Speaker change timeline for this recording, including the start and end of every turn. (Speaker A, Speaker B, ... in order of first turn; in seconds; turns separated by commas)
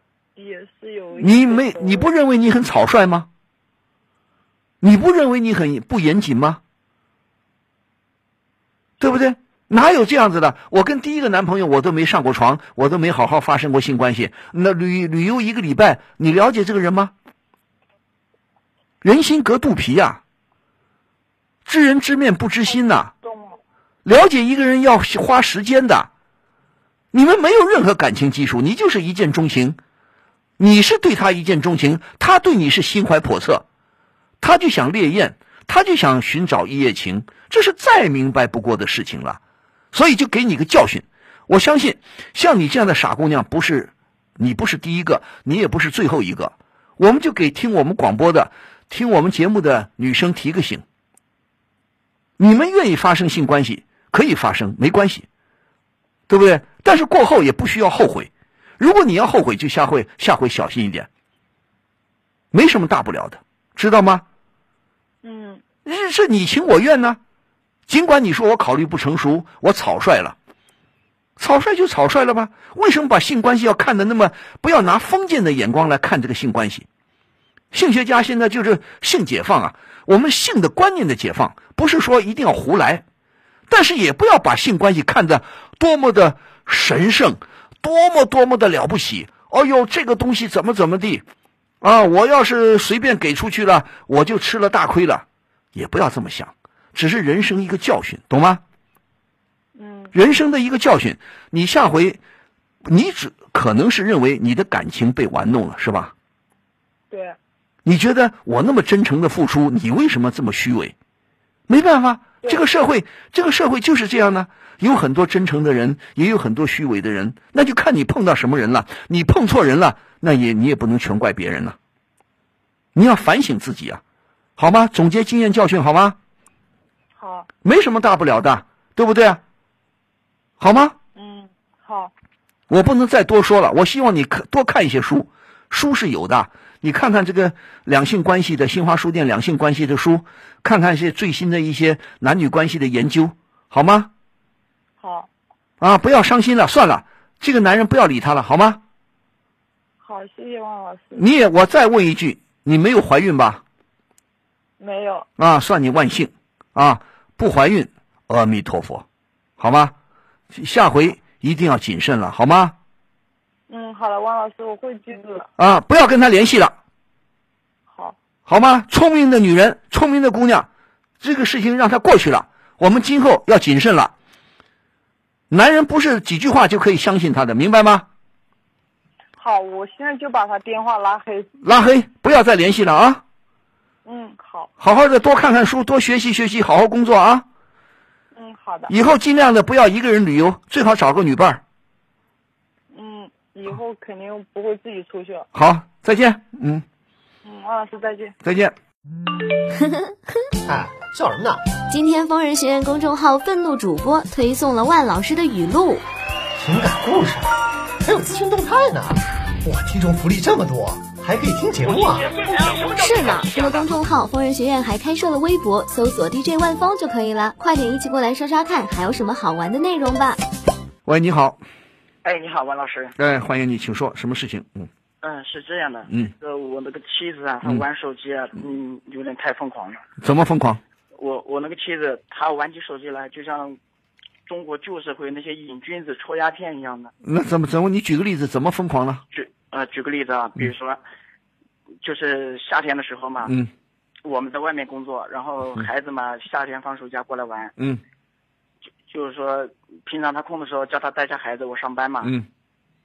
Speaker A: 0.4-2.1, Speaker B: 1.2-3.3, Speaker B: 4.8-6.6, Speaker B: 9.0-17.1, Speaker B: 19.0-20.2, Speaker B: 21.7-23.1, Speaker A: 23.2-23.6, Speaker B: 24.1-26.1, Speaker B: 27.1-29.8, Speaker B: 30.6-33.6, Speaker B: 34.4-39.4, Speaker B: 39.9-50.8, Speaker B: 52.4-55.3, Speaker B: 56.3-61.1, Speaker B: 62.5-64.2, Speaker A: 65.2-65.6, Speaker B: 65.8-67.2, Speaker B: 67.9-70.4, Speaker B: 71.4-76.9, Speaker B: 77.7-83.0, Speaker B: 83.7-91.2, Speaker B: 91.8-98.6, Speaker A: 99.8-100.1, Speaker B: 100.1-102.2, Speaker B: 102.8-106.1, Speaker A: 107.1-107.4, Speaker B: 107.8-111.0, Speaker B: 111.7-121.8, Speaker B: 123.0-124.0, Speaker B: 124.6-126.2, Speaker A: 127.2-127.5, Speaker B: 127.6-129.4, Speaker B: 130.6-131.0, Speaker A: 131.2-132.1, Speaker B: 132.7-144.1, Speaker A: 145.0-145.3, Speaker B: 145.8-148.8, Speaker A: 150.0-151.2, Speaker B: 151.2-153.6, Speaker A: 154.8-155.3, Speaker B: 155.4-159.1, Speaker B: 159.6-159.9, Speaker B: 160.5-162.8, Speaker A: 163.7-165.5, Speaker B: 165.6-166.8, Speaker A: 167.9-168.2, Speaker B: 168.5-170.7, Speaker B: 171.2-174.1, Speaker B: 175.5-178.1, Speaker A: 179.4-181.5, Speaker B: 181.6-183.2, Speaker A: 184.1-184.7, Speaker B: 184.8-187.5, Speaker A: 188.3-188.9, Speaker B: 188.9-191.6, Speaker A: 192.9-195.5, Speaker B: 195.5-196.8, Speaker A: 197.4-198.3, Speaker B: 198.4-198.8, Speaker C: 200.7-201.6, Speaker D: 201.9-206.1, Speaker C: 206.6-207.5, Speaker C: 208.0-212.3, Speaker D: 212.5-220.4, Speaker B: 221.1-221.6, Speaker E: 222.2-223.2, Speaker B: 223.2-224.9, Speaker E: 225.2-230.0, Speaker B: 230.2-230.8, Speaker E: 231.2-233.8, Speaker E: 234.5-237.1, Speaker B: 237.2-239.2, Speaker E: 239.3-241.0, Speaker E: 242.0-243.5, Speaker B: 243.4-243.7, Speaker E: 244.2-247.7, Speaker E: 249.1-252.3